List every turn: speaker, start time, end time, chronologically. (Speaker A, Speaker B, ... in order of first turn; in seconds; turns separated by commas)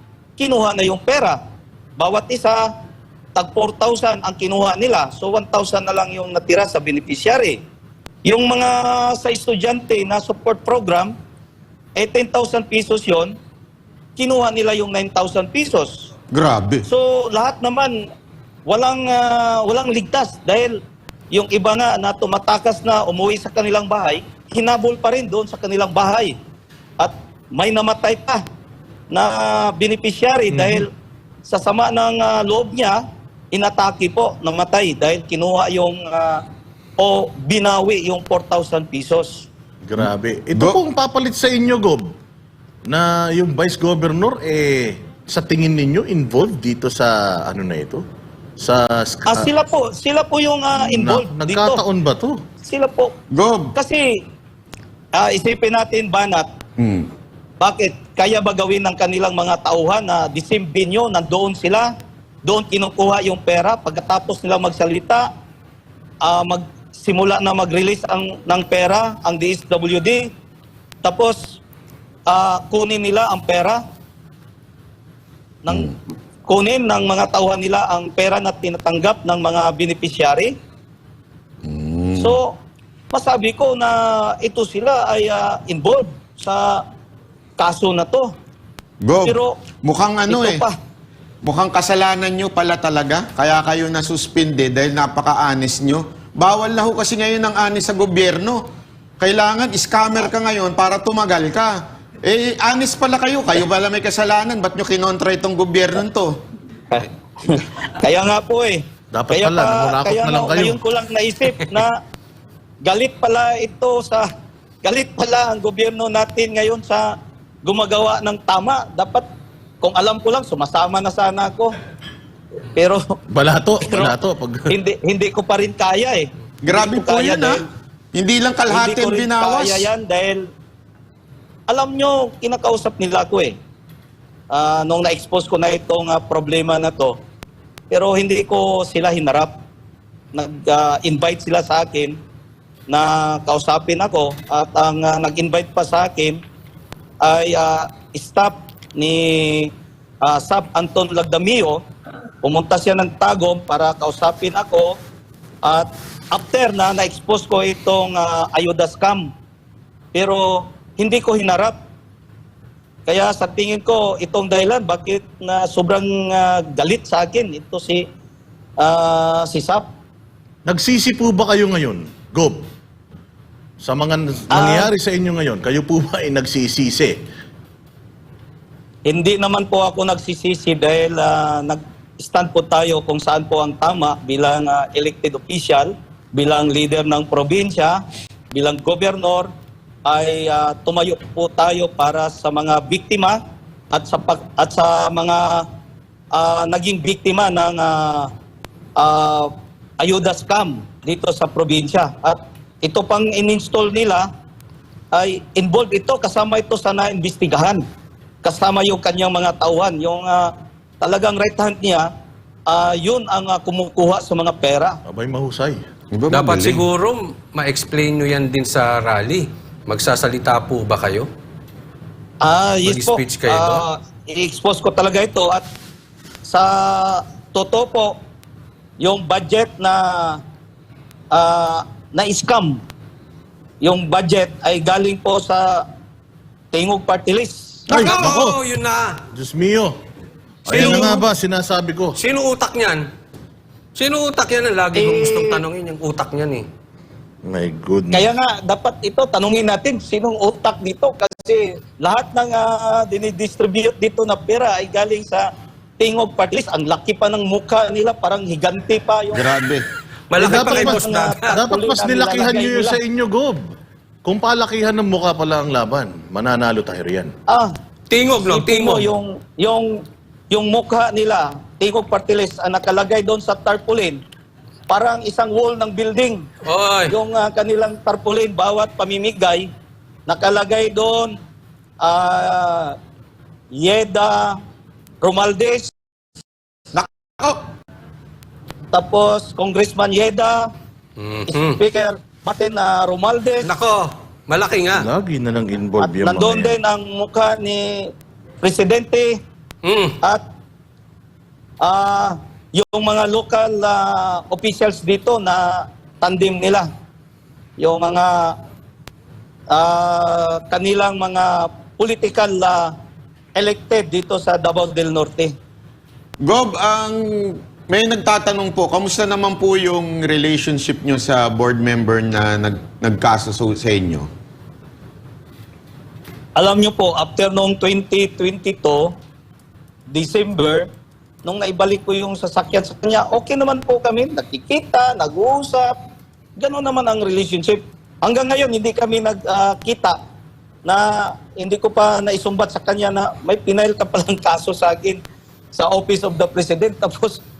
Speaker A: 0.4-1.4, Speaker A: 2.0-2.7, Speaker A: 3.4-7.6, Speaker A: 8.3-11.2, Speaker A: 12.0-13.3, Speaker A: 14.2-16.1, Speaker B: 16.3-16.8, Speaker A: 16.9-18.0, Speaker A: 18.7-20.8, Speaker A: 21.3-26.4, Speaker A: 27.0-28.4, Speaker A: 29.1-30.9, Speaker C: 30.5-30.8, Speaker A: 31.5-33.0, Speaker A: 33.5-36.4, Speaker A: 37.0-39.5, Speaker C: 39.8-42.1, Speaker B: 40.0-40.8, Speaker C: 42.9-48.0, Speaker C: 48.6-49.5, Speaker A: 49.3-51.8, Speaker C: 50.8-52.4, Speaker A: 52.6-53.1, Speaker B: 53.3-53.8, Speaker A: 53.8-54.2, Speaker A: 55.1-56.5, Speaker B: 56.8-57.1, Speaker A: 57.6-61.9, Speaker A: 62.5-65.3, Speaker A: 66.2-70.3, Speaker A: 71.0-71.6, Speaker A: 72.3-73.8, Speaker A: 75.6-76.0, Speaker A: 76.5-80.5, Speaker B: 81.6-82.4, Speaker A: 82.2-82.5, Speaker A: 83.1-86.8, Speaker A: 87.6-88.3, Speaker B: 89.0-90.6, Speaker A: 89.2-89.6, Speaker A: 90.3-90.8, Speaker B: 91.4-98.6, Speaker B: 99.2-106.4, Speaker A: 106.9-112.0, Speaker C: 109.1-110.8, Speaker A: 112.8-114.3, Speaker A: 114.8-117.1, Speaker A: 117.7-119.3, Speaker A: 119.8-121.8, Speaker A: 122.7-123.2, Speaker C: 123.3-124.7, Speaker A: 123.8-124.2, Speaker A: 124.7-127.7, Speaker B: 126.7-127.6, Speaker B: 128.1-129.9, Speaker A: 128.7-130.5, Speaker A: 131.7-133.6, Speaker A: 134.5-137.2, Speaker A: 137.9-139.5, Speaker A: 140.3-142.2, Speaker A: 142.9-146.4, Speaker A: 147.2-149.7, Speaker A: 150.2-151.8, Speaker A: 152.4-155.0, Speaker A: 155.6-159.3, Speaker A: 160.1-161.8, Speaker A: 163.1-168.1, Speaker A: 168.8-169.8, Speaker C: 170.7-172.6, Speaker C: 173.8-177.2, Speaker A: 174.5-174.9, Speaker A: 179.1-188.0, Speaker A: 188.5-189.5, Speaker A: 190.1-193.4, Speaker A: 193.9-195.7, Speaker A: 196.3-198.3, Speaker A: 199.0-204.3, Speaker A: 205.1-207.8, Speaker A: 208.4-212.1, Speaker A: 212.7-215.0, Speaker C: 215.1-215.9, Speaker B: 216.1-216.8, Speaker D: 216.3-221.3, Speaker A: 222.4-225.6, Speaker D: 222.8-223.8, Speaker A: 226.5-228.2, Speaker A: 229.0-230.4, Speaker A: 231.3-232.8, Speaker A: 233.8-235.9, Speaker A: 236.7-237.9, Speaker C: 237.9-238.6, Speaker D: 237.9-239.2, Speaker C: 239.3-240.0, Speaker C: 240.7-242.2, Speaker D: 240.7-241.3, Speaker A: 240.8-241.1, Speaker D: 242.2-243.1, Speaker D: 244.0-246.7, Speaker A: 244.9-245.6, Speaker C: 247.4-248.3, Speaker A: 248.1-255.5, Speaker A: 256.0-259.5, Speaker B: 259.3-259.9, Speaker D: 260.3-261.6, Speaker C: 260.4-263.6, Speaker A: 260.4-263.0, Speaker C: 264.2-267.3, Speaker A: 267.5-267.7, Speaker D: 268.1-269.1, Speaker A: 268.4-274.2, Speaker A: 274.9-276.5, Speaker D: 276.6-277.1, Speaker A: 277.1-279.7, Speaker A: 280.3-281.4, Speaker A: 282.0-283.0, Speaker A: 283.7-284.6, Speaker A: 285.2-285.9, Speaker B: 286.9-287.6, Speaker A: 288.9-290.7, Speaker D: 291.2-291.8, Speaker A: 291.5-293.7, Speaker D: 293.6-295.1, Speaker C: 295.0-296.8, Speaker A: 296.0-298.1, Speaker A: 298.6-299.4, Speaker D: 299.8-300.2, Speaker A: 301.8-306.9, Speaker A: 307.8-308.6, Speaker A: 309.7-312.9, Speaker A: 313.6-315.5, Speaker B: 316.4-324.3, Speaker A: 326.6-329.1, Speaker A: 330.1-330.9, Speaker A: 331.4-335.9, Speaker A: 336.6-340.2, Speaker A: 340.9-345.2, Speaker A: 345.7-347.4